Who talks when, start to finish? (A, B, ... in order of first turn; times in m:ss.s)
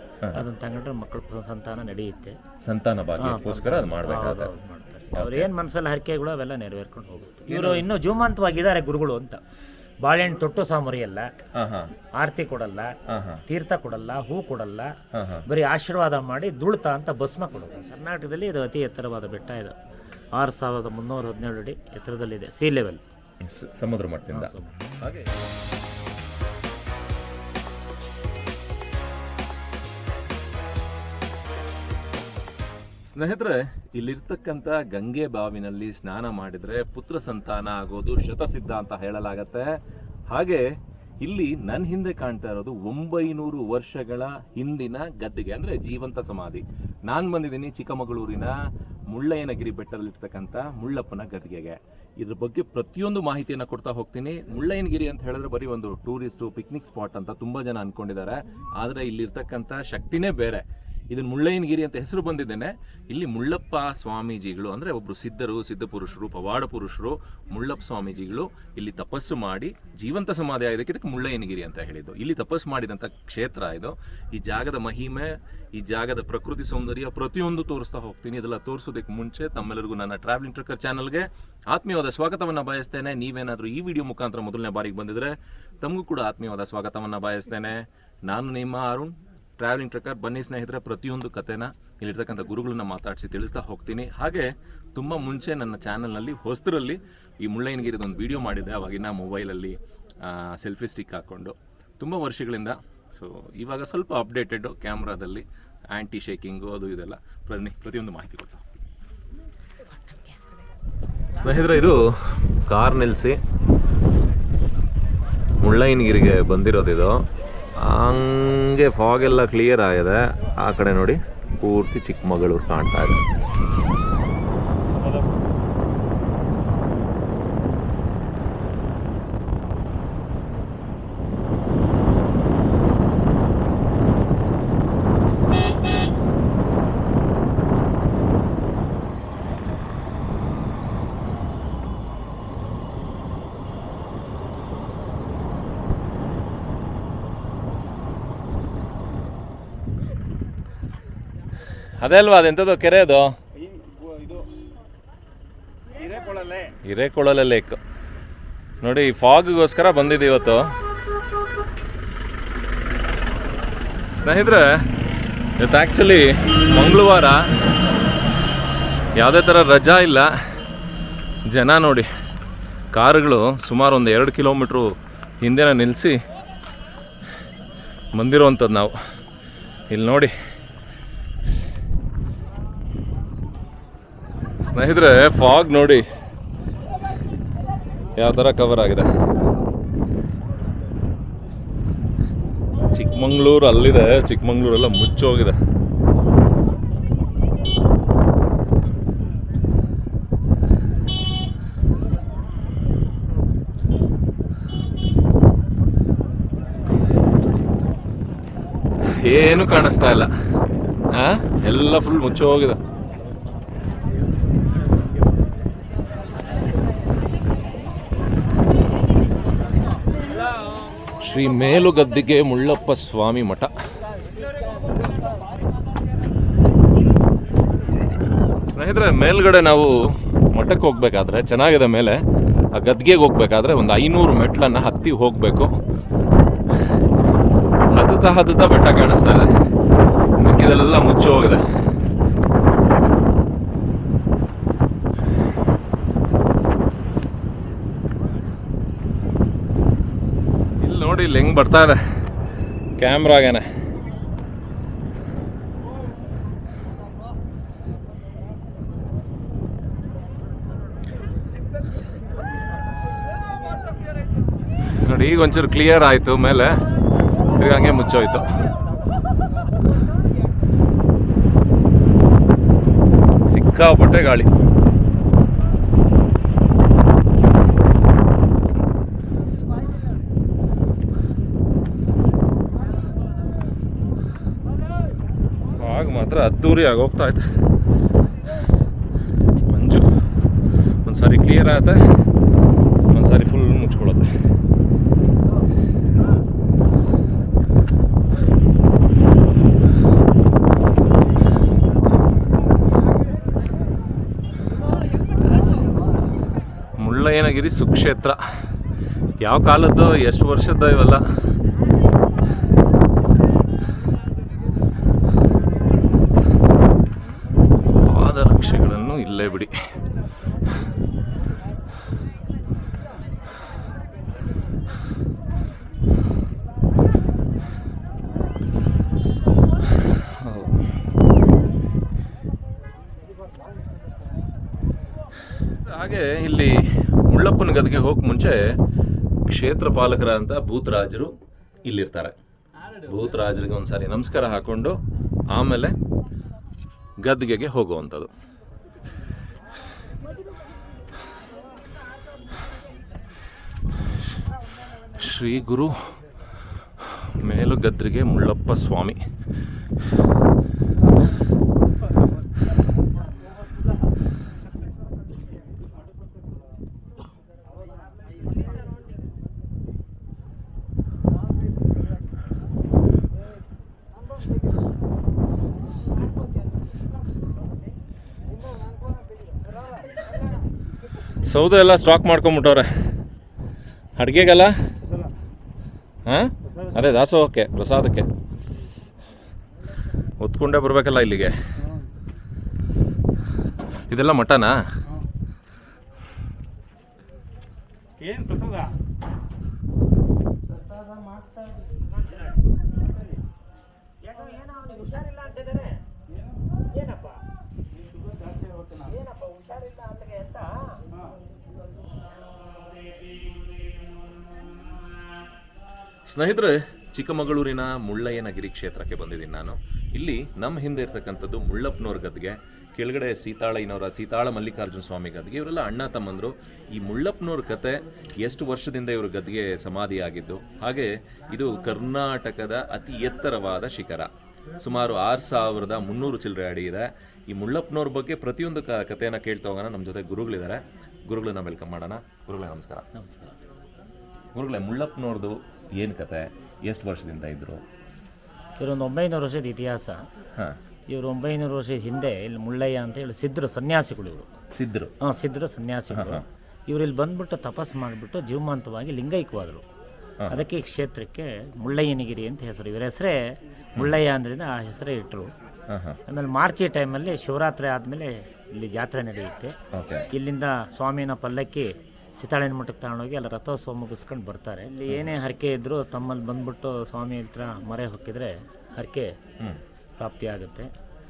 0:00.3-0:02.4 A
0:02.6-0:04.5 B
0:03.2-0:09.4 A
0:05.1-0:05.5 B
0:07.5-0:07.8 B
0:10.0-0:11.3 A
0:11.5-0:11.9 B
0:12.2-0:12.9 A
0:13.1-0:13.4 B
0:13.4-0:14.9 A
0:15.1-0:15.4 B
0:15.5-0:19.8 A
0:20.3-0:23.0 A
0:23.4-0:25.4 B
0:24.3-0:24.9 A
0:33.1-0:39.7 B
0:40.3-0:40.6 B
0:41.2-0:48.5 B
0:49.1-1:48.6 B
1:49.9-1:50.3 A
1:51.3-1:53.4 B
1:55.6-1:57.2 B
1:57.8-2:03.2 B
2:04.8-2:05.3 C
2:32.0-2:33.3 B
2:33.5-2:34.5 C
2:35.9-2:36.7 C
2:36.8-2:37.8 B
2:38.8-2:40.7 B
2:44.1-2:44.8 B
2:45.6-2:47.5 B
2:49.1-2:50.3 B
2:51.5-2:52.1 B
2:52.9-2:56.2 B
2:58.1-2:59.0 B
2:59.9-3:00.3 B
3:04.6-3:06.1 B
3:08.1-3:09.1 B
3:12.9-3:15.6 B
3:29.0-3:30.3 B
3:31.1-3:32.8 B
3:34.8-3:35.3 C
3:41.2-3:43.7 B
3:48.7-3:55.7 B
3:57.9-3:59.5 B
4:00.4-4:01.6 B
4:10.8-4:12.0 B
4:13.0-4:13.7 B
4:24.8-4:26.8 B
4:27.5-4:28.5 B
4:33.4-4:34.5 B
4:45.8-4:47.5 B
4:49.7-4:50.2 B
4:51.0-4:52.2 B
4:53.1-4:54.3 B
5:07.0-5:08.4 B
5:09.4-5:11.2 B
5:17.9-5:19.9 B
5:30.0-5:30.8 B
5:35.8-5:38.8 B
5:39.5-5:42.3 B
5:43.0-5:45.0 B
5:45.5-5:46.0 B
5:47.2-5:48.3 B
5:55.1-5:56.2 B
5:57.0-5:59.2 B
6:21.4-6:22.9 B
6:24.2-6:24.7 B
6:25.0-6:25.3 C
6:26.2-6:28.3 B
6:26.6-6:27.0 C
6:30.4-6:31.5 B
6:31.8-6:32.1 C
6:34.1-6:34.8 B
6:38.2-6:38.9 C
6:44.2-6:46.0 A
6:46.9-6:47.4 A
6:48.0-6:49.1 C
6:49.1-6:51.0 A
6:56.2-7:23.1 B
7:23.1-7:23.6 A
7:24.5-7:27.8 B
7:28.8-7:30.2 A
7:31.1-7:34.5 A
7:34.7-7:35.1 B
7:35.2-7:39.8 A
7:36.1-7:36.4 B
7:40.4-7:40.6 B
7:40.5-7:45.5 A
7:45.9-7:46.2 B
7:46.3-7:49.7 A
7:49.9-7:50.3 B
7:50.3-7:59.4 A
8:00.2-8:00.9 A